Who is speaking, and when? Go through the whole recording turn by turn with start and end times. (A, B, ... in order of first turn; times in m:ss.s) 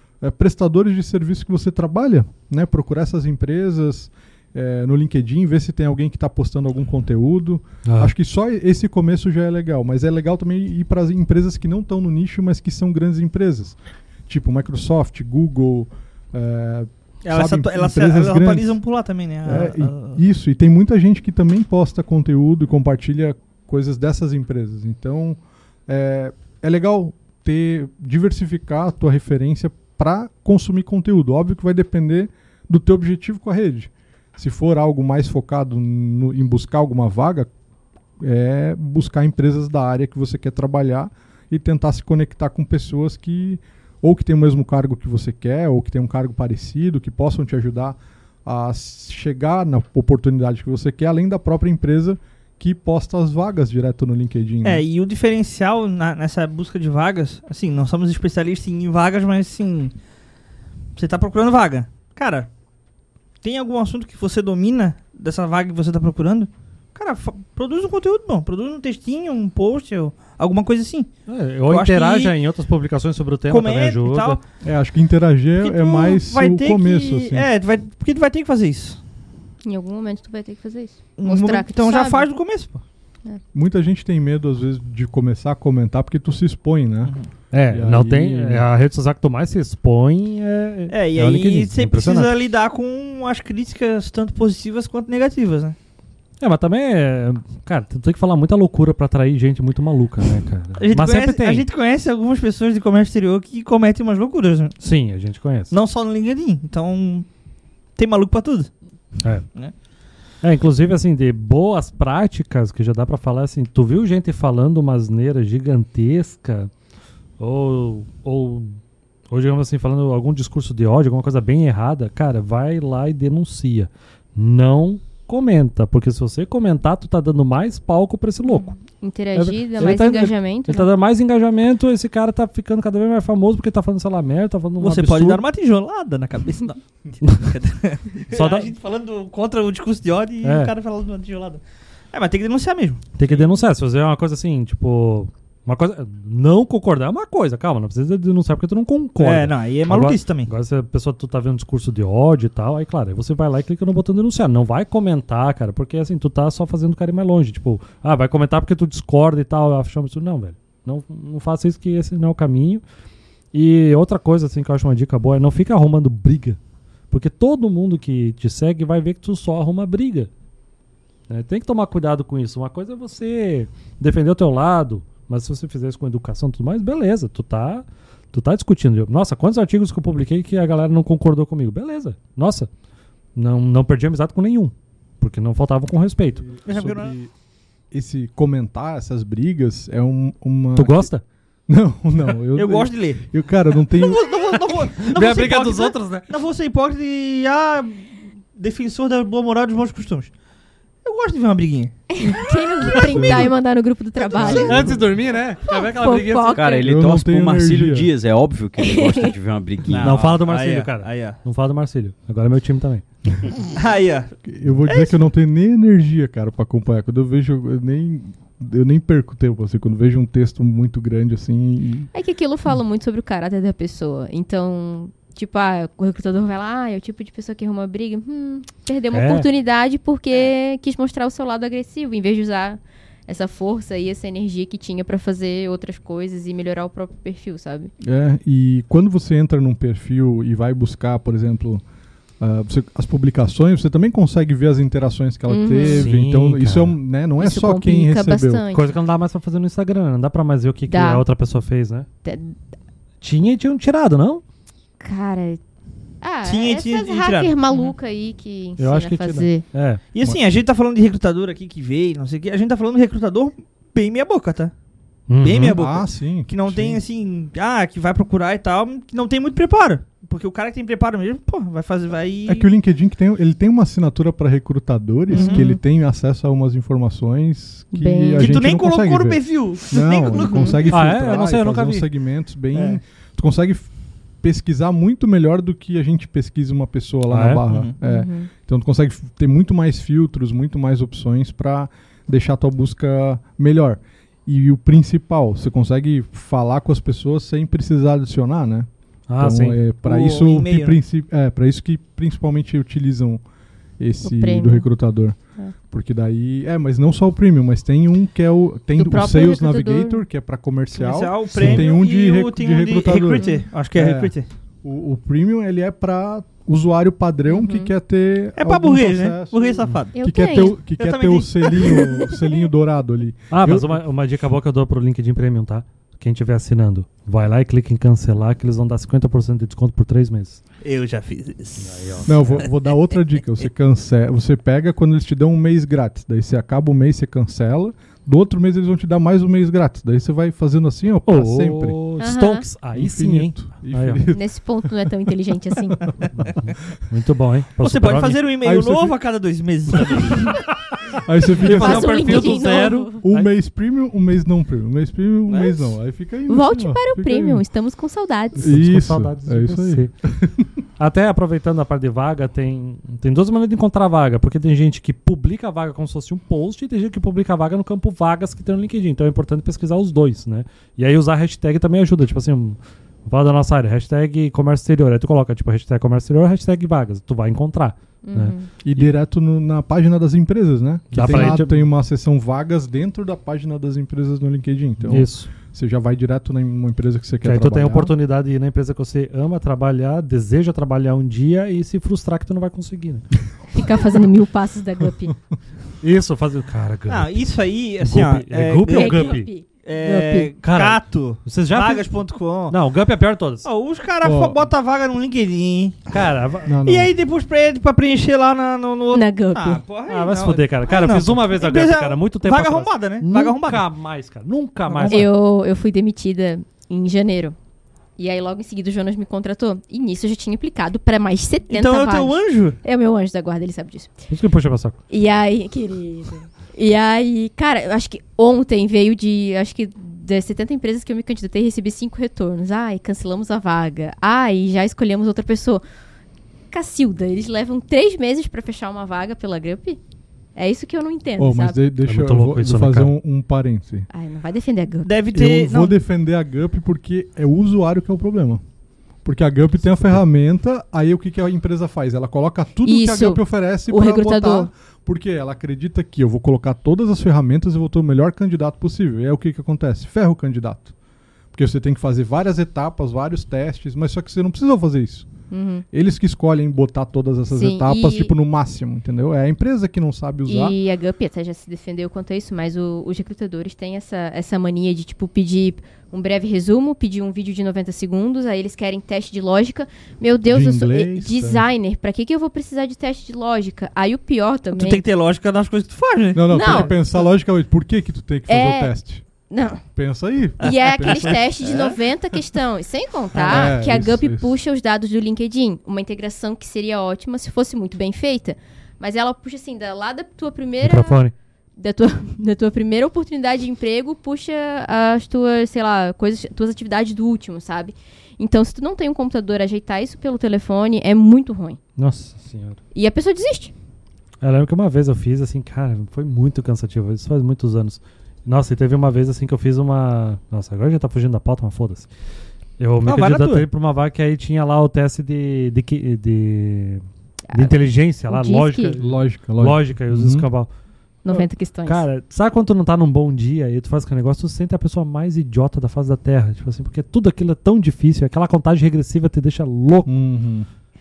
0:00.2-0:18.8 A
0:07.8-0:08.1 B
0:17.2-0:20.2 C
0:19.4-0:37.5 A
0:38.2-0:54.8 A
0:54.6-0:59.9 C
1:01.0-1:02.5 C
1:03.4-1:11.1 C
1:11.3-1:14.4 B
1:11.7-1:12.3 C
1:13.5-1:14.4 C
1:14.6-1:17.5 A
1:15.6-1:19.0 C
1:19.6-1:22.3 D
1:21.2-1:22.8 C
1:23.5-1:27.1 A
1:27.0-1:27.3 C
1:27.5-1:32.3 B
1:27.7-1:28.6 A
1:30.9-1:35.8 C
1:36.4-1:41.6 B
1:40.8-1:44.8 C
1:44.8-1:45.7 B
1:45.7-1:47.3 C
1:48.0-1:48.7 C
1:50.4-1:56.7 B
1:57.4-1:58.8 B
1:59.3-2:08.8 B
2:08.4-2:10.9 D
2:09.3-2:15.4 B
2:14.8-2:23.5 C
2:18.3-2:18.7 B
2:20.4-2:20.7 B
2:23.2-2:42.8 B
2:29.2-2:30.5 C
2:43.5-2:46.6 B
2:47.1-2:50.3 B
2:51.3-3:02.7 B
3:03.4-3:06.5 B
3:06.4-3:07.3 A
3:06.6-3:07.2 C
3:07.9-3:11.1 A
3:10.8-3:11.2 B
3:11.7-3:14.2 A
3:12.5-3:13.2 C
3:13.8-3:20.3 C
3:15.0-3:16.3 B
3:21.0-3:21.9 C
3:22.1-3:25.0 D
3:22.8-3:23.5 A
3:24.3-3:25.1 A
3:24.5-3:26.8 B
3:25.6-3:26.9 D
3:26.5-3:30.4 E
3:26.8-3:28.1 A
3:28.8-3:29.3 D
3:30.0-3:33.0 B
3:30.0-3:31.4 C
3:33.7-3:34.3 C
3:34.4-3:42.1 A
3:34.8-3:35.2 C
3:42.1-3:57.9 D
3:49.1-3:49.5 B
3:58.0-4:01.8 A
4:02.4-4:08.6 A
4:05.5-4:06.0 D
4:05.8-4:07.0 B
4:07.4-4:08.9 D
4:08.7-4:12.1 B
4:10.9-4:11.2 D
4:12.2-4:12.6 D
4:13.2-4:14.4 B
4:15.0-4:15.6 D
4:16.2-4:19.6 D
4:16.4-4:17.9 C
4:18.8-4:20.0 B
4:20.1-4:24.7 C
4:25.3-4:25.8 B
4:25.4-4:32.7 C
4:25.6-4:27.0 A
4:32.5-4:43.9 A
4:35.3-4:35.8 D
4:35.3-4:35.7 C
4:37.9-4:38.5 D
4:38.4-4:41.3 C
4:40.3-4:40.8 D
4:40.9-4:42.1 B
4:42.7-4:43.0 C
4:44.4-4:58.9 A
4:47.3-4:47.6 B
4:47.7-4:47.9 C
4:48.0-4:48.5 D
4:59.3-4:59.8 B
4:59.4-5:03.4 A
5:00.0-5:01.0 C
5:04.0-5:05.4 A
5:04.2-5:04.9 D
5:05.9-5:24.0 A
5:09.0-5:10.2 D
5:10.9-5:14.5 C
5:11.6-5:11.8 B
5:13.4-5:13.6 D
5:17.5-5:17.9 D
5:18.6-5:22.1 C
5:20.1-5:20.8 D
5:21.8-5:22.3 D
5:23.5-5:30.6 B
5:30.8-5:32.6 C
5:31.8-5:32.6 B
5:32.2-5:42.0 A
5:41.2-5:44.2 B
5:42.2-5:42.6 D
5:42.9-5:45.1 A
5:44.3-5:46.2 D
5:45.7-5:46.5 A
5:46.6-5:48.4 B
5:47.8-5:50.6 C
5:48.6-5:49.2 A
5:50.7-5:53.5 B
5:51.1-5:57.6 A
5:51.6-5:53.2 D
5:55.5-5:55.8 C
5:56.5-5:58.7 D
5:58.6-6:00.1 B
5:58.6-6:00.7 A
6:01.0-6:19.1 B
6:18.2-6:18.7 D
6:18.8-6:28.1 A
6:21.1-6:21.8 B
6:25.0-6:25.5 B
6:27.4-6:33.2 B
6:33.7-6:35.3 D
6:36.0-6:37.4 B
6:37.1-6:42.8 C
6:38.0-6:39.5 B
6:38.9-6:39.6 D
6:40.0-6:42.1 B
6:42.7-6:43.7 B
6:43.6-6:46.1 C
6:44.2-6:44.6 A
6:46.1-6:46.7 B
6:46.6-6:47.1 A
6:46.8-6:53.8 C
6:49.1-6:49.8 D
6:50.1-6:55.3 B
6:54.9-6:55.3 C
6:55.0-6:57.6 D
6:58.2-7:04.1 D
7:01.7-7:02.8 C
7:04.3-7:05.0 B
7:05.1-7:15.8 D
7:16.7-7:20.0 D
7:20.5-7:21.8 D
7:21.4-7:24.1 A
7:22.0-7:23.1 B
7:24.1-7:25.1 D
7:25.0-7:26.0 C
7:25.3-7:28.6 A
7:29.2-7:40.9 A
7:32.8-7:34.7 D
7:41.5-7:45.3 A
7:45.5-7:45.8 D
7:45.9-7:50.8 A
7:47.5-7:48.3 D
7:50.5-8:05.0 D
8:00.5-8:01.6 A
8:04.7-8:07.0 C
8:06.3-8:09.2 A
8:06.5-8:06.9 D
8:08.5-8:08.9 D
8:09.5-8:09.8 D
8:09.9-8:11.9 A
8:10.6-8:21.2 D
8:10.6-8:11.9 C
8:13.3-8:13.7 C
8:13.4-8:14.5 A
8:20.8-8:21.3 B
8:21.8-8:31.8 D
8:32.0-8:32.8 B
8:32.9-8:33.7 D
8:34.4-8:42.1 B
8:42.8-8:50.7 B
8:43.0-8:43.6 C
8:47.5-8:47.8 D
8:48.3-8:49.0 D
8:49.0-8:50.5 A
8:51.2-8:52.0 D
8:51.3-9:00.1 B
9:00.0-9:00.7 A